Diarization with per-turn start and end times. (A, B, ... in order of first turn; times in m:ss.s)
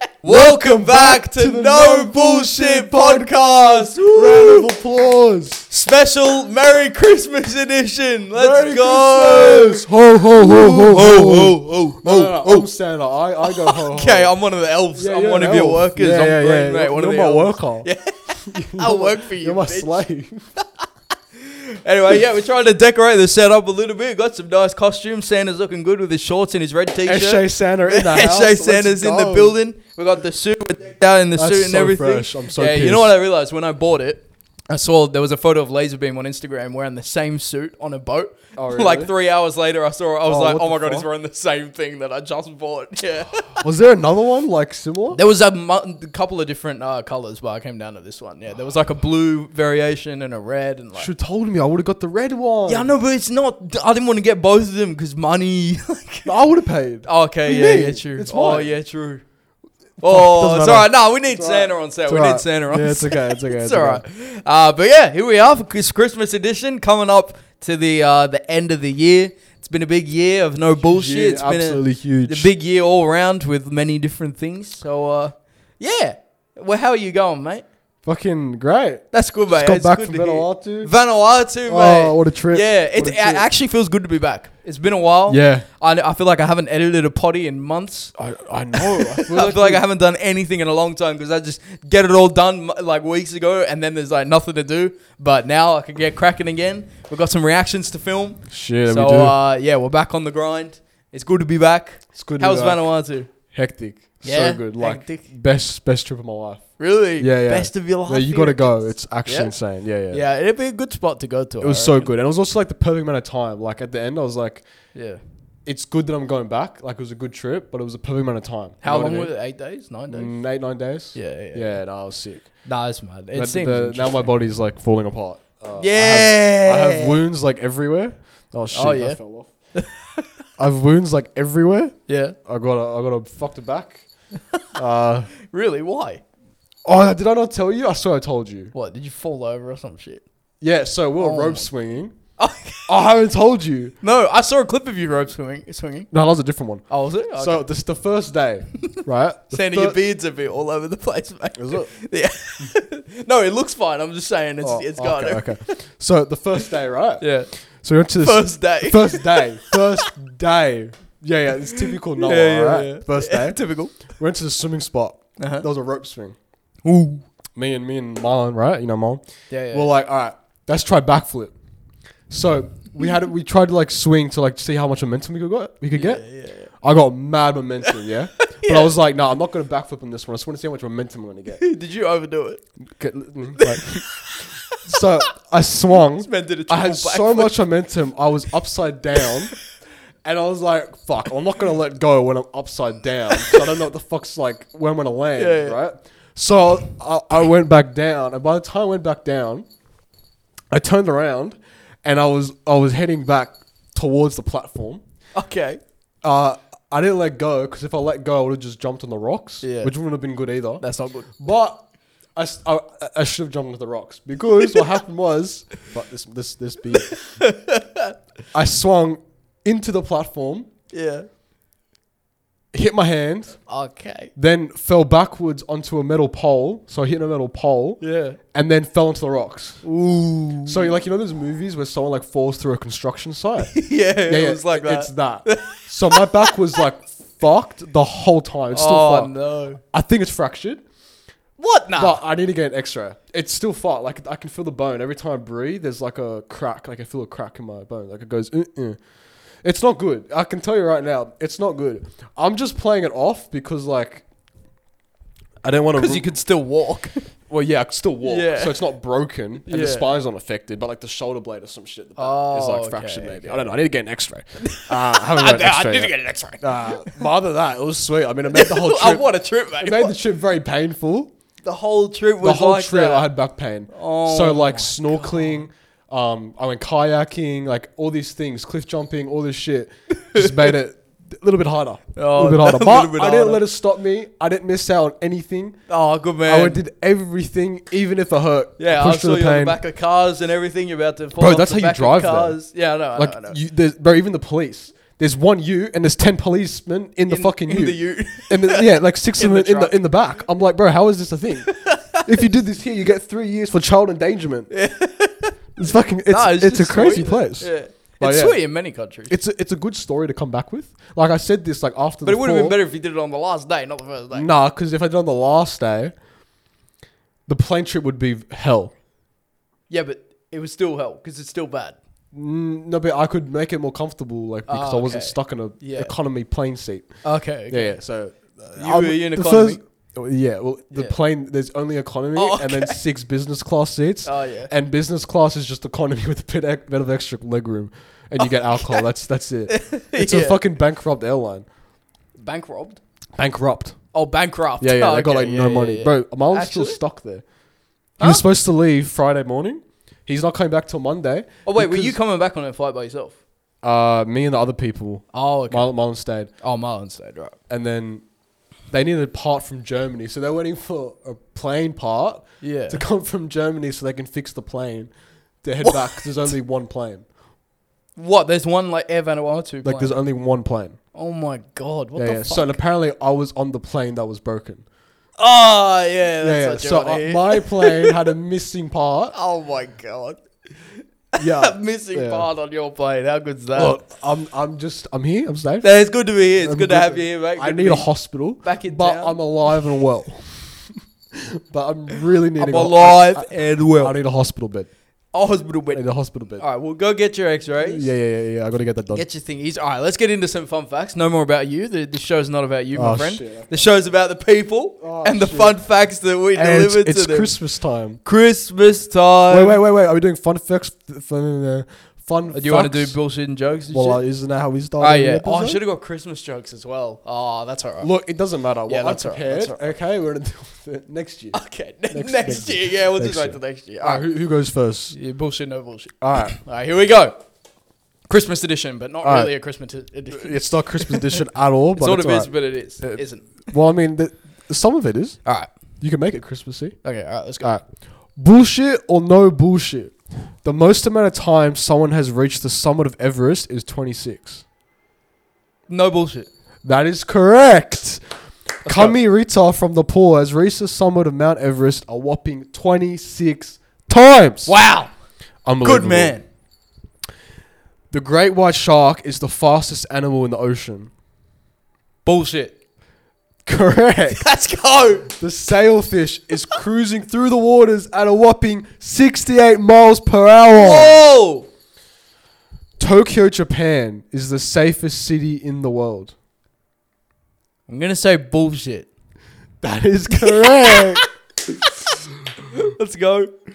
0:00.2-0:04.7 A
0:00.2-0:05.6 B
0:05.7-0:09.8 A
0:08.3-0:14.3 B
0:10.4-0:12.7 A
0:13.4-0:20.0 A
0:14.9-0:17.9 B
0:18.4-0:20.4 B
0:21.4-0:43.6 A
0:27.0-0:29.6 B
0:31.4-0:33.1 B
0:38.6-0:39.1 B
0:40.3-0:41.1 B
0:43.6-0:45.2 B
0:45.1-0:51.1 A
0:51.0-0:52.9 B
0:52.7-0:56.3 A
0:56.2-0:58.7 B
0:57.0-0:59.2 A
1:00.0-1:17.6 A
1:00.0-1:04.0 B
1:10.7-1:12.5 B
1:18.0-1:20.9 B
1:19.1-1:28.1 A
1:21.6-1:23.5 B
1:25.3-1:25.6 B
1:28.2-1:29.8 B
1:28.7-1:43.3 A
1:38.5-1:39.4 B
1:42.1-1:50.2 B
1:44.2-1:45.2 A
1:46.8-1:49.5 A
1:50.1-1:52.1 A
1:51.6-1:54.7 B
1:54.9-1:55.2 A
1:55.6-1:59.3 B
1:58.8-2:00.3 A
2:00.1-2:02.5 B
2:01.1-2:01.8 A
2:02.6-2:04.3 A
2:03.3-2:09.5 B
2:05.8-2:07.2 A
2:08.7-2:09.2 A
2:09.7-2:10.3 A
2:10.6-2:14.0 B
2:12.1-2:12.4 A
2:14.7-2:15.3 B
2:15.4-2:16.2 A
2:16.8-2:18.7 B
2:18.7-2:20.2 A
2:20.6-2:22.1 B
2:21.2-2:21.7 A
2:22.4-2:22.9 A
2:22.9-2:23.9 B
2:24.0-2:26.1 A
2:26.1-2:30.0 B
2:26.9-2:27.6 A
2:29.5-2:35.8 A
2:31.6-2:31.9 B
2:34.6-2:46.4 B
2:37.2-2:37.5 A
2:38.2-2:40.1 A
2:42.2-2:44.0 A
2:45.4-2:45.6 A
2:46.8-2:47.2 A
2:47.5-2:51.5 B
2:49.5-2:49.9 A
2:52.3-2:56.2 B
2:55.9-2:56.7 A
2:56.8-3:01.6 B
2:58.4-2:58.9 A
3:01.5-3:02.6 A
3:03.0-3:04.2 B
3:03.6-3:05.1 A
3:04.8-3:09.6 B
3:06.1-3:07.6 A
3:10.2-3:19.6 B
3:13.3-3:13.7 A
3:15.4-3:15.8 A
3:20.7-3:25.0 B
3:25.4-3:25.8 A
3:26.2-3:30.8 B
3:29.6-3:29.9 A
3:30.8-3:31.3 A
3:31.4-3:31.8 B
3:32.4-3:37.1 B
3:37.1-3:38.2 A
3:38.5-3:40.7 B
3:40.9-3:41.3 A
3:42.7-3:43.6 B
3:43.7-3:44.3 A
3:44.4-3:49.8 B
3:48.0-3:48.4 A
3:49.8-3:50.9 A
3:50.6-3:59.3 B
3:53.7-3:56.5 A
3:58.7-3:59.8 A
3:59.8-4:00.8 B
4:01.6-4:02.2 A
4:02.0-4:09.0 B
4:09.6-4:14.2 B
4:15.6-4:16.3 B
4:15.9-4:17.2 A
4:17.5-4:31.3 B
4:18.2-4:18.8 A
4:19.7-4:20.1 A
4:22.2-4:23.7 A
4:24.6-4:27.1 A
4:28.5-4:30.1 A
4:31.6-4:33.3 A
4:32.4-4:45.8 B
4:33.9-4:35.6 A
4:40.1-4:40.7 A
4:42.2-4:43.6 A
4:45.9-4:46.8 A
4:46.4-4:49.8 B
4:48.8-4:53.6 A
4:51.4-4:52.6 B
4:53.1-5:04.7 B
4:57.3-4:59.9 A
5:01.7-5:02.3 A
5:04.7-5:05.6 A
5:05.8-5:08.6 B
5:06.3-5:09.3 A
5:09.3-5:12.8 B
5:12.2-5:14.5 A
5:14.3-5:16.1 B
5:17.5-5:18.9 B
5:19.9-5:22.0 A
5:22.3-5:27.1 B
5:24.7-5:26.1 A
5:27.2-5:28.0 A
5:27.7-5:41.6 B
5:28.8-5:29.8 A
5:32.3-5:33.0 A
5:34.2-5:34.7 A
5:38.4-5:39.0 A
5:39.7-5:40.6 A
5:42.4-5:43.0 A
5:43.4-5:44.0 B
5:44.1-5:47.0 A
5:44.8-5:47.4 B
5:48.2-5:48.4 A
5:48.2-5:52.2 B
5:51.6-5:53.4 A
5:53.8-5:56.5 B
5:55.3-5:55.9 A
5:56.6-5:57.6 A
5:57.7-5:58.2 B
5:58.9-6:05.1 B
6:02.6-6:03.0 A
6:05.6-6:07.2 B
6:05.8-6:06.3 A
6:08.2-6:10.2 A
6:09.8-6:11.0 B
6:11.1-6:12.8 A
6:12.2-6:14.8 B
6:15.4-6:18.2 A
6:16.4-6:19.3 B
6:19.3-6:20.4 A
6:21.3-6:24.0 A
6:21.4-6:22.5 B
6:23.7-6:25.9 B
6:25.8-6:28.1 A
6:26.5-6:30.8 B
6:28.6-6:29.4 A
6:31.3-6:34.9 B
6:32.6-6:34.1 A
6:35.3-6:36.0 A
6:35.9-6:36.6 B
6:36.6-6:38.1 A
6:37.8-6:39.2 B
6:39.1-6:47.6 A
6:42.9-6:43.9 B
6:45.0-6:45.8 B
6:46.5-6:48.2 B
6:48.2-6:49.8 A
6:49.5-6:53.2 B
6:52.5-6:54.2 A
6:53.9-6:55.8 B
6:55.0-6:58.1 A
6:58.0-7:01.6 B
6:58.9-6:59.9 A
7:01.5-7:04.2 A
7:02.1-7:05.2 B
7:05.1-7:07.4 A
7:06.2-7:06.6 B
7:08.3-7:11.4 A
7:09.2-7:09.6 B
7:10.3-7:15.4 B
7:12.0-7:13.7 A
7:16.0-7:17.0 B
7:17.0-7:17.7 A
7:18.4-7:24.6 B
7:25.9-7:26.5 A
7:26.8-7:28.2 B
7:28.8-7:29.2 A
7:28.8-7:34.7 B
7:34.6-7:35.1 A
7:35.6-7:36.3 B
7:35.8-7:36.4 A
7:38.1-7:41.1 B
7:42.2-7:42.8 A
7:43.6-7:44.4 B
7:44.3-7:45.3 A
7:45.3-7:51.2 B
7:50.7-7:51.7 A
7:53.0-7:56.3 B
7:57.9-7:59.1 A
7:59.8-8:01.2 B
8:00.5-8:01.3 A
8:02.6-8:03.5 A